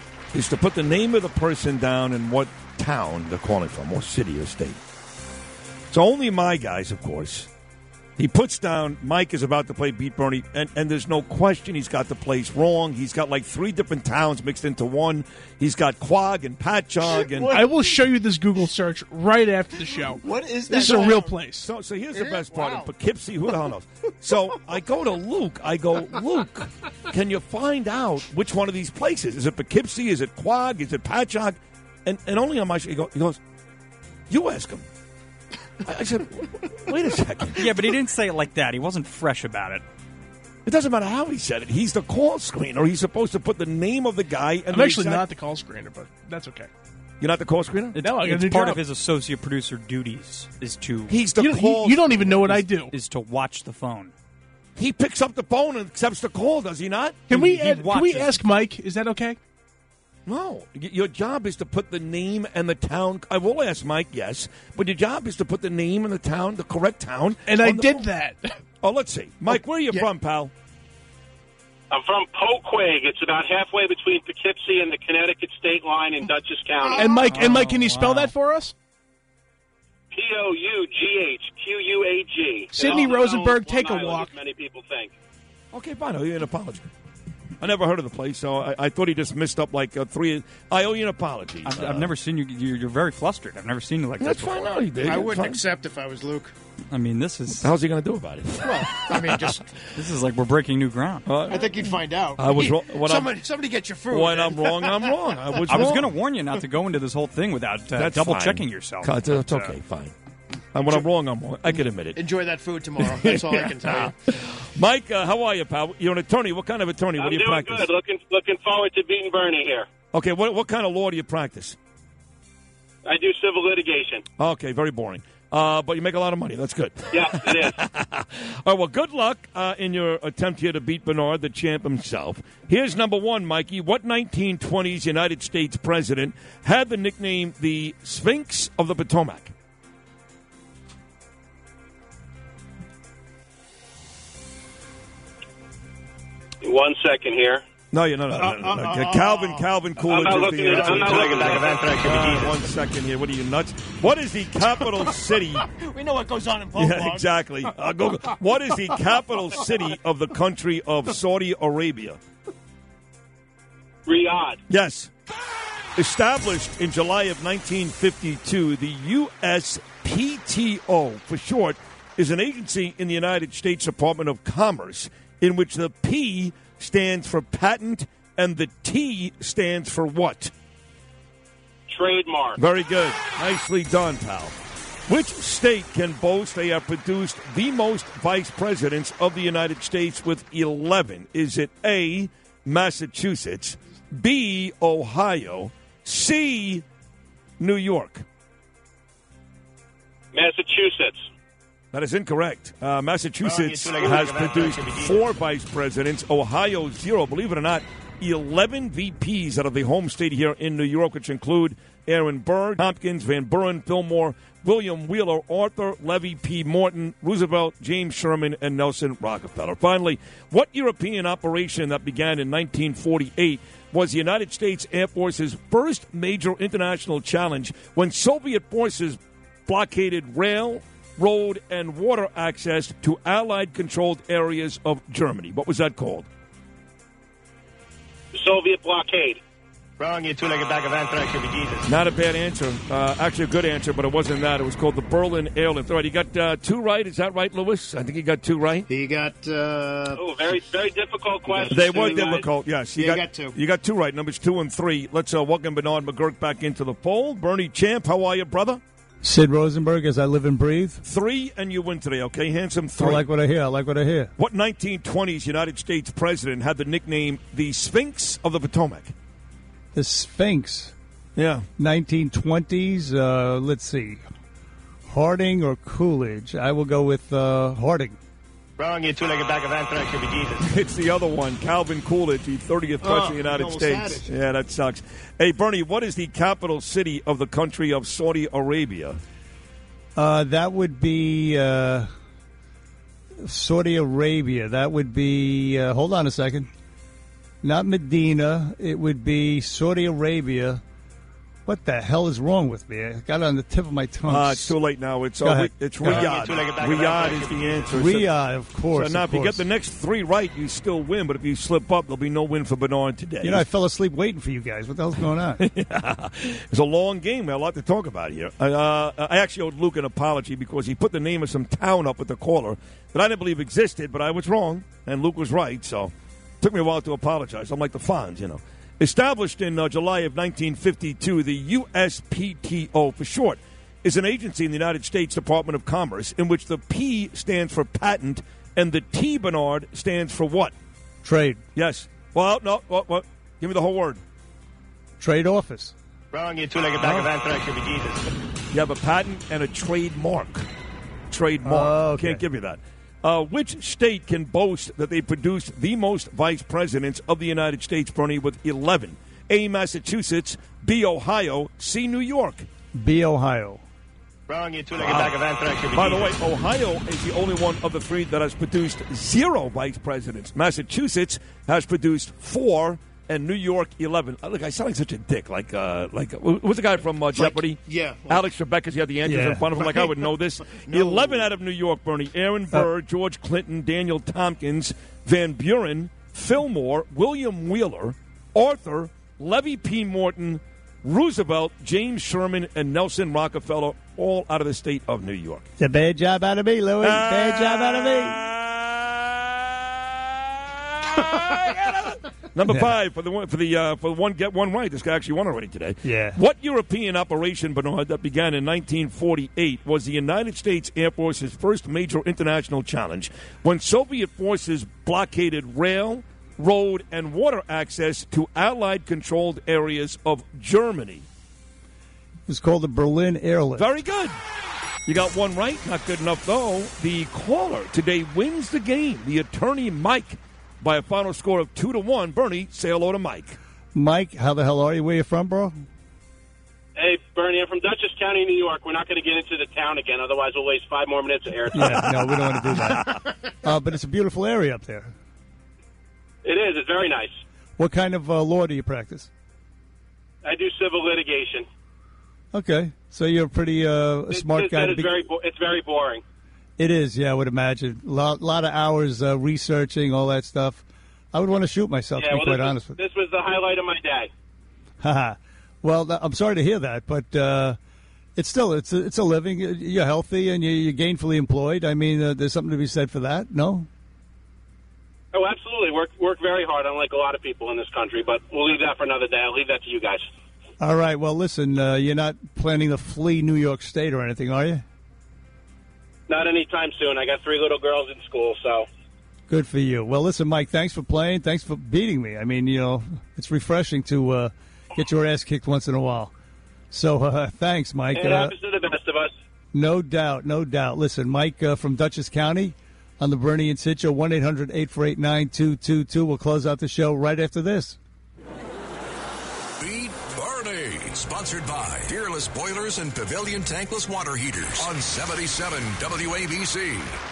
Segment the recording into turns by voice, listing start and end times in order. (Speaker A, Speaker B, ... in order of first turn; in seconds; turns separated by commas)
Speaker A: 0.3-4.8, Speaker A: 5.9-7.5, Speaker A: 8.2-17.6, Speaker B: 17.0-18.0, Speaker C: 17.5-21.7, Speaker B: 19.9-21.4, Speaker A: 21.6-33.4, Speaker B: 22.1-22.9, Speaker A: 34.3-34.9, Speaker A: 35.9-37.7, Speaker D: 37.6-39.8, Speaker A: 40.7-45.3, Speaker C: 44.7-46.7, Speaker A: 47.2-48.0, Speaker D: 47.9-51.3, Speaker C: 48.0-48.8, Speaker A: 51.1-52.6, Speaker C: 51.4-52.9, Speaker D: 52.1-54.1, Speaker A: 54.8-57.3, Speaker C: 57.3-59.4, Speaker D: 57.3-58.5, Speaker A: 60.3-68.1, Speaker C: 67.5-68.5, Speaker A: 68.8-70.5, Speaker E: 71.9-77.2, Speaker C: 76.9-78.7, Speaker B: 77.0-77.4, Speaker D: 77.4-78.3, Speaker E: 80.1-85.1, Speaker C: 82.7-84.3, Speaker A: 85.7-86.9, Speaker A: 87.6-92.1, Speaker D: 91.6-94.9, Speaker A: 94.2-95.6, Speaker B: 94.6-96.5, Speaker D: 96.9-97.7, Speaker A: 97.6-99.6, Speaker B: 98.6-99.7, Speaker D: 100.0-101.4, Speaker A: 101.2-101.8, Speaker B: 101.4-105.4, Speaker A: 102.3-103.4, Speaker A: 104.1-106.2, Speaker D: 105.7-109.8, Speaker A: 108.0-110.1, Speaker A: 110.7-112.3, Speaker B: 112.2-114.1, Speaker A: 113.0-117.9, Speaker E: 117.2-119.9, Speaker A: 120.1-121.8, Speaker E: 123.0-124.2, Speaker A: 124.4-139.5, Speaker E: 127.1-127.8, Speaker E: 146.6-147.6, Speaker A: 147.9-155.7, Speaker B: 148.3-149.7, Speaker E: 150.0-151.7, Speaker B: 150.7-151.1, Speaker F: 151.0-152.6, Speaker B: 154.9-158.1, Speaker A: 156.8-162.2, Speaker E: 164.1-164.6, Speaker A: 164.7-165.1, Speaker A: 166.0-180.5, Speaker E: 181.9-182.6, Speaker A: 182.6-184.6, Speaker A: 185.1-196.8, Speaker A: 197.6-198.2, Speaker E: 200.3-201.2, Speaker A: 201.9-236.3, Speaker F: 203.4-205.2, Speaker E: 238.3-239.4, Speaker F: 240.0-241.9, Speaker A: 241.8-248.9, Speaker B: 248.9-250.2, Speaker E: 250.1-252.4, Speaker B: 251.5-251.9, Speaker A: 251.7-258.8, Speaker B: 252.9-253.6, Speaker G: 259.2-261.0, Speaker A: 261.0-263.3, Speaker G: 263.0-264.3, Speaker A: 264.4-269.1, Speaker G: 269.9-270.9, Speaker A: 271.4-271.6, Speaker G: 271.8-274.2, Speaker G: 275.1-278.2, Speaker F: 278.8-280.6, Speaker A: 280.6-289.2, Speaker B: 283.0-284.3, Speaker G: 290.2-292.1, Speaker G: 293.4-296.7, Speaker G: 297.6-300.8, Speaker G: 301.7-304.8, Speaker A: 304.3-308.3, Speaker G: 305.4-306.3, Speaker F: 306.0-307.8, Speaker G: 307.9-309.7, Speaker A: 308.9-313.7, Speaker G: 313.4-315.6, Speaker A: 315.6-340.7, Speaker G: 341.2-341.6, Speaker A: 341.8-344.2, Speaker G: 345.2-345.9, Speaker F: 346.3-348.3, Speaker A: 347.0-347.3, Speaker A: 348.7-350.7, Speaker A: 351.3-362.7, Speaker G: 351.6-352.4, Speaker G: 362.9-363.8, Speaker F: 364.5-366.3, Speaker A: 365.0-365.4, Speaker A: 365.9-395.7, Speaker B: 377.3-378.4, Speaker G: 379.2-379.7, Speaker B: 379.8-380.2, Speaker B: 380.7-381.5, Speaker G: 395.8-398.4, Speaker A: 397.0-399.7, Speaker A: 400.6-421.3, Speaker G: 402.7-402.9, Speaker G: 406.0-406.4, Speaker G: 422.5-423.9, Speaker A: 423.8-424.4, Speaker A: 425.1-433.6, Speaker G: 433.9-435.8, Speaker E: 437.0-442.1, Speaker G: 441.7-445.1, Speaker A: 442.9-443.2, Speaker E: 446.4-447.4, Speaker G: 447.8-449.3, Speaker E: 450.4-451.7, Speaker G: 452.5-455.2, Speaker E: 454.3-456.2, Speaker G: 456.8-463.0, Speaker E: 462.2-464.3, Speaker G: 465.0-467.8, Speaker G: 468.4-473.9, Speaker E: 475.3-480.2, Speaker G: 480.8-484.8, Speaker E: 486.3-488.9, Speaker G: 489.5-496.3, Speaker G: 496.9-498.6, Speaker E: 498.1-499.3, Speaker G: 499.7-508.0, Speaker H: 509.8-517.1